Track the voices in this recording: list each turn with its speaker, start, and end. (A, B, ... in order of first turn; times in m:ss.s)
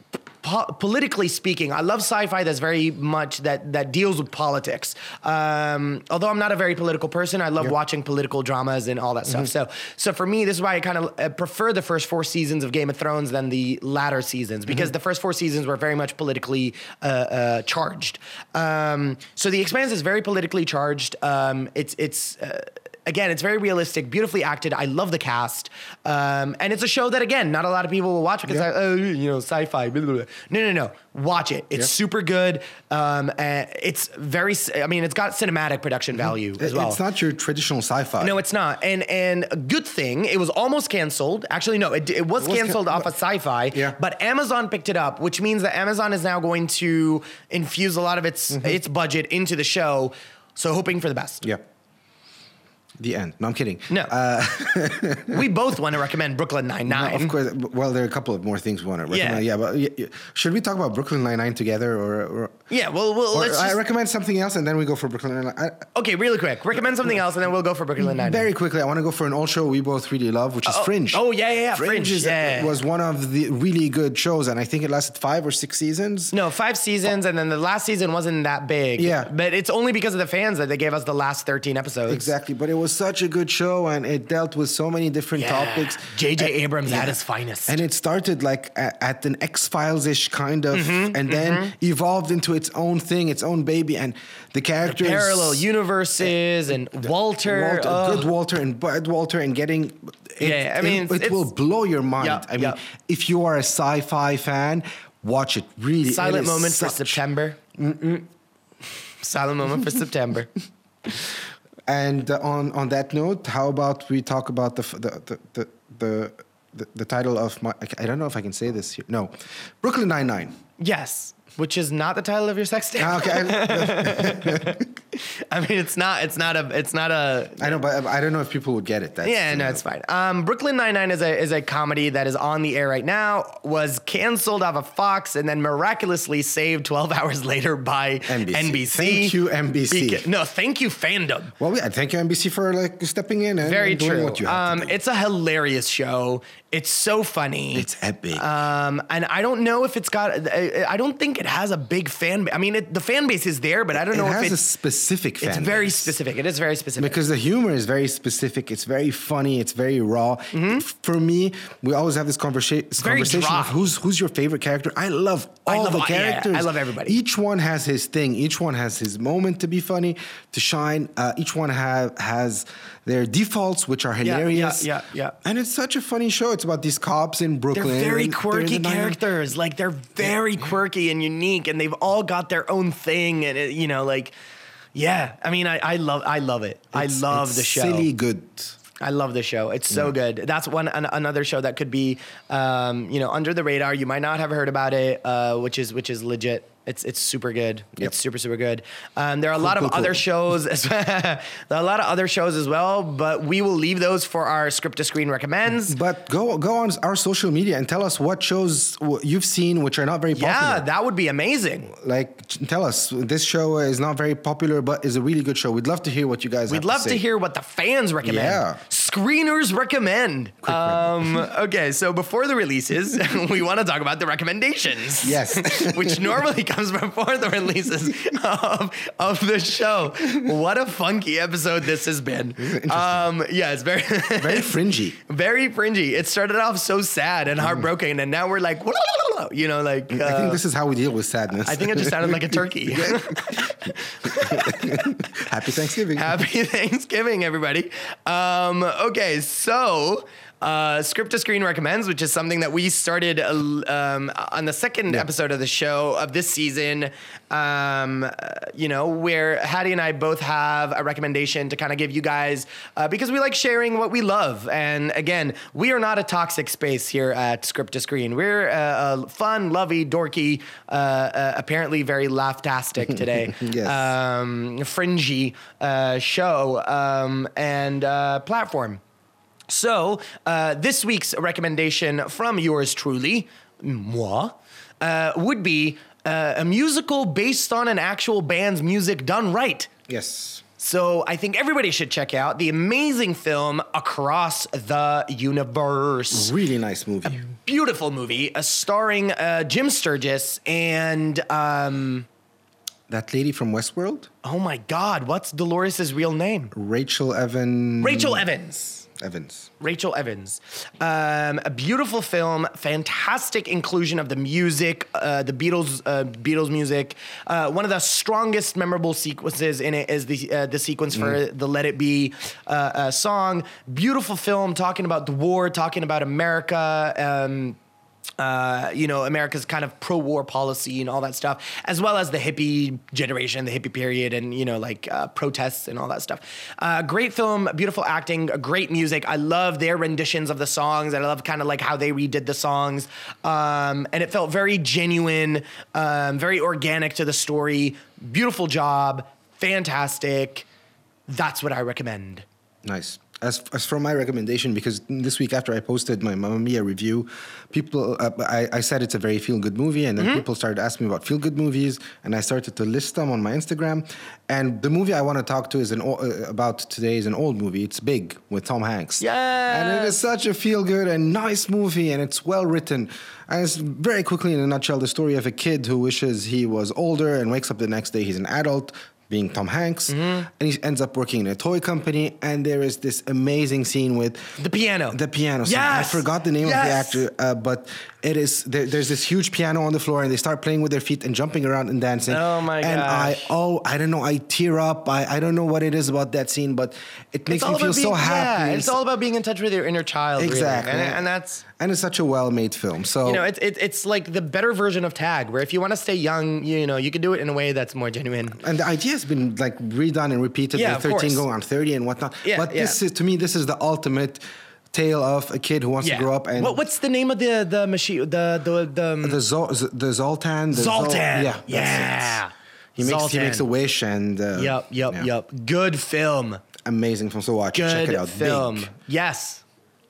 0:00.4-0:37.0 A
0:14.7-0:14.9 B
0:36.2-0:38.4 B
0:38.2-0:51.5 A
0:42.4-0:43.1 B
0:43.7-0:44.0 B
0:53.0-0:55.5 B
0:55.3-0:57.3 A
0:56.9-1:02.6 B
0:59.1-0:59.4 A
1:02.7-1:03.8 A
1:03.3-1:05.9 B
1:06.0-1:08.5 A
1:08.0-1:11.2 B
1:10.7-1:12.8 A
1:11.7-1:16.3 B
1:16.3-1:22.3 A
1:19.0-1:19.3 B
1:22.1-1:35.6 B
1:25.4-1:27.8 A
1:30.7-1:31.7 A
1:34.8-1:38.3 A
1:37.0-1:47.2 B
1:40.4-1:41.5 A
1:42.2-1:42.8 A
1:46.1-1:47.6 A
1:47.8-1:48.3 B
1:49.2-1:50.5 A
1:51.9-2:00.6 B
2:00.8-2:07.8 A
2:03.0-2:04.9 B
2:07.6-2:09.8 B
2:09.2-2:19.4 A
2:18.3-2:20.3 B
2:19.9-2:21.5 A
2:21.6-2:24.9 B
2:23.6-2:34.6 A
2:27.7-2:28.5 B
2:33.9-2:36.1 B
2:35.4-2:37.2 A
2:37.0-2:54.9 B
2:40.5-2:40.8 A
2:43.0-2:43.9 A
2:45.7-2:47.2 A
2:54.2-2:55.4 A
2:55.4-2:59.2 B
2:57.7-3:04.3 A
3:05.0-3:08.1 A
3:06.9-3:08.8 B
3:09.0-3:26.0 A
3:09.9-3:10.2 B
3:19.6-3:20.2 B
3:25.7-3:30.9 B
3:30.3-3:31.9 A
3:31.9-3:37.2 B
3:36.7-4:00.6 A
3:38.2-3:38.8 B
3:40.6-3:41.5 B
3:45.2-3:46.4 B
3:52.6-3:53.3 B
3:54.4-3:55.2 B
3:57.6-3:57.9 B
4:00.1-4:06.4 B
4:01.6-4:05.2 A
4:06.1-4:39.0 A
4:33.0-4:34.1 B
4:39.7-4:49.9 A
4:50.1-4:50.6 B
4:50.8-4:56.5 A
4:56.3-4:57.5 B
4:57.3-5:02.3 A
5:03.1-5:04.3 B
5:04.4-5:06.7 A
5:06.7-5:08.5 B
5:08.0-5:09.1 A
5:09.1-5:09.7 B
5:09.8-5:27.8 A
5:28.4-5:50.7 A
5:51.3-5:52.5 A
5:52.8-6:24.6 B
6:09.2-6:10.2 A
6:20.1-6:20.5 A
6:24.6-6:27.2 A
6:25.1-6:39.0 B
6:32.3-6:33.5 A
6:37.5-6:41.6 A
6:40.4-6:43.4 B
6:43.2-6:48.6 A
6:48.5-6:54.4 B
6:50.7-6:51.4 A
6:52.4-6:53.0 A
6:54.9-6:56.8 B
6:56.0-6:59.4 A
6:59.2-7:02.4 B
7:00.7-7:03.6 A
7:03.0-7:05.3 B
7:04.6-7:06.6 A
7:06.8-7:08.9 B
7:07.7-7:09.6 A